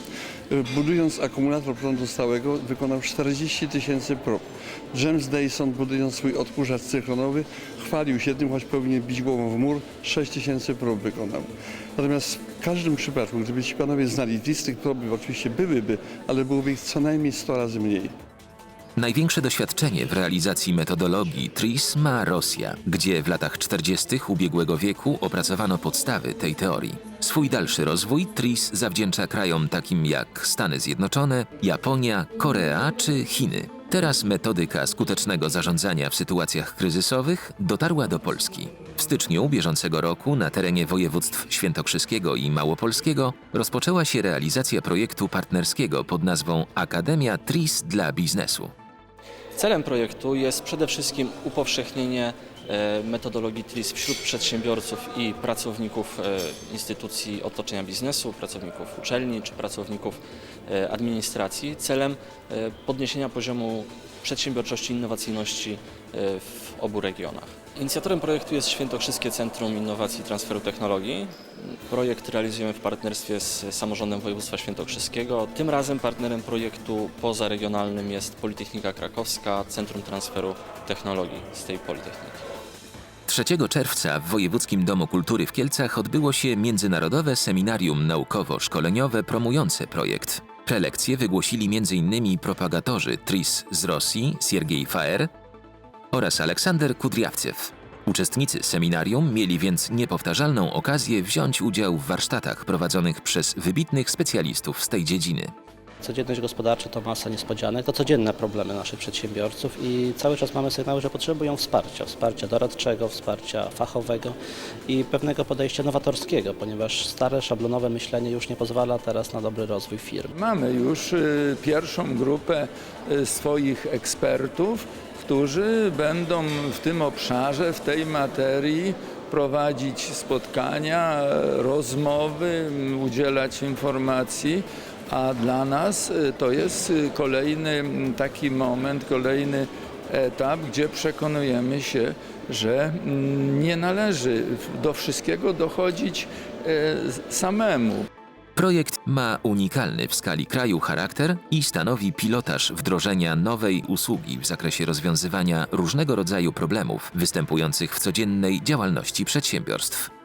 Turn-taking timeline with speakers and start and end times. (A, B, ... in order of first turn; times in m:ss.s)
0:00.5-0:18.1 A
0:19.0-0:48.7 B
0:49.6-1:22.4 C
1:23.3-1:35.3 B
1:36.1-1:45.5 B
1:46.0-2:00.3 D
2:00.3-2:28.1 E
2:28.6-2:40.1 B